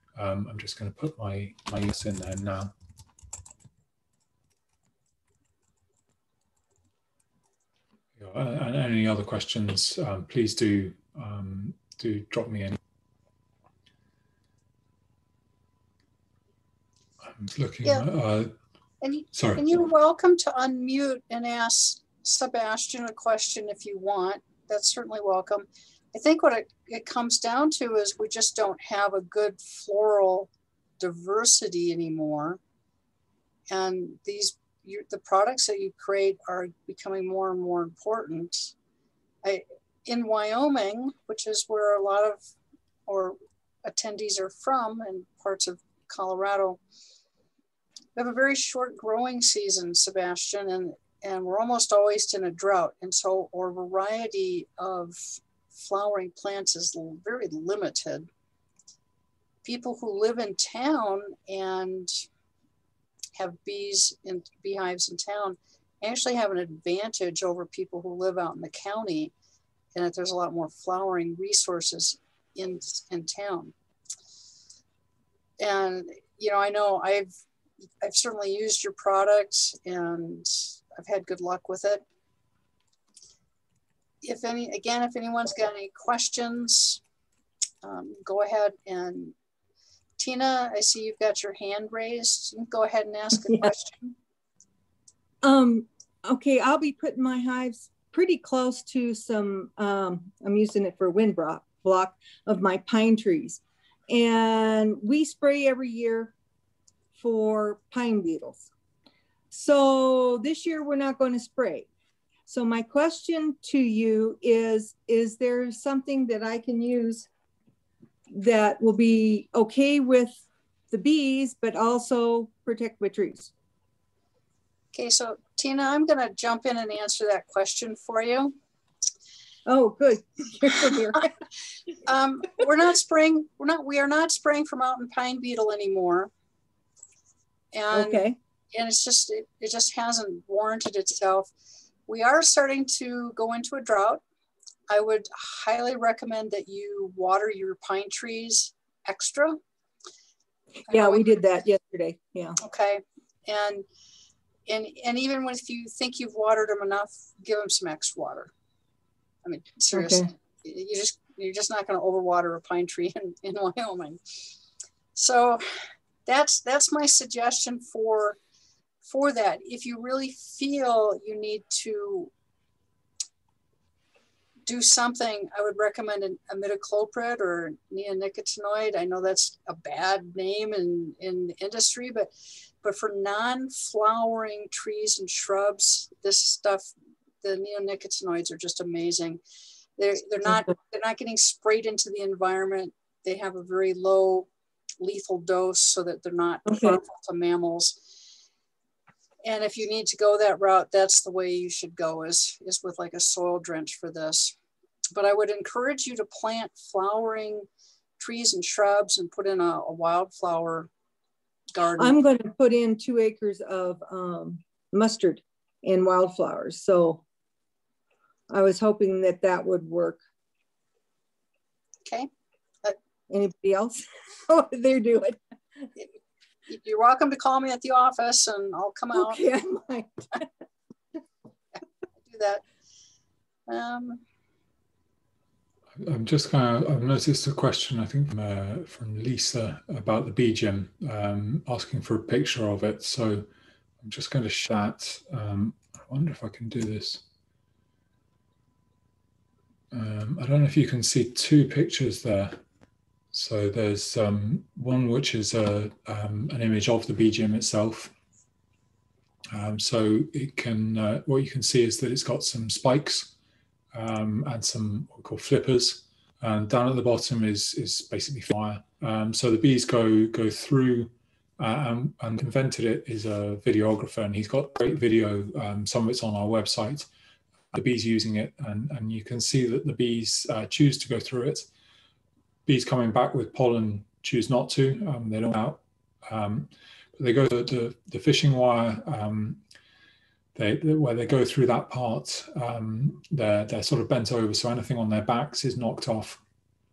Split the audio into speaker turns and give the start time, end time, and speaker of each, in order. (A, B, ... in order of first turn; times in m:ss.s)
0:00.2-0:02.7 A
0:08.2-0:12.8 A
0:17.2-0:18.5 A
0:19.0-0:32.6 B
0:19.3-0:19.6 A
0:33.7-0:38.7 B
0:39.4-0:42.4 B
0:43.1-0:46.8 B
0:48.2-0:58.3 B
0:59.6-1:02.2 B
1:03.4-1:09.3 B
1:09.9-1:13.7 B
1:15.6-1:17.3 B
1:18.0-1:22.0 B
1:24.2-1:27.0 B
1:27.8-1:29.3 B
1:30.2-1:34.1 B
1:35.4-1:46.3 C
1:47.2-1:48.7 C
1:49.5-1:51.9 C
1:52.5-1:57.3 C
1:58.3-2:03.5 C
2:04.9-2:08.5 B
2:09.6-2:11.3 C
2:12.0-2:16.3 B
2:17.7-2:21.5 B
2:17.9-2:18.4 C
2:22.1-2:24.2 B
2:24.9-2:29.6 B
2:30.9-2:31.4 B
2:30.9-2:32.6 C
2:32.6-2:33.8 B
2:34.7-2:38.5 B
2:39.4-2:44.2 B
2:39.9-2:40.3 C
2:45.1-2:48.4 B
2:49.0-2:52.3 B
2:54.7-3:09.4 B
3:10.0-3:14.5 B
3:15.0-3:18.0 B
3:16.7-3:17.0 C
3:19.4-3:24.5 B
3:25.1-3:27.7 B
3:28.2-3:30.9 B
3:31.7-3:32.2 B
3:32.0-3:37.2 C
3:38.5-3:40.2 C
3:43.3-3:45.4 C
3:46.7-3:49.4 B
3:49.2-3:50.5 C
3:52.2-3:52.6 B
3:53.7-3:54.2 B
3:56.0-4:03.5 A
4:04.0-4:07.2 A
4:09.9-4:12.6 A
4:13.3-4:18.1 A
4:19.5-4:23.3 A
4:23.9-4:37.1 A
4:37.7-4:41.7 A
4:42.6-4:49.6 A
4:50.5-4:56.4 A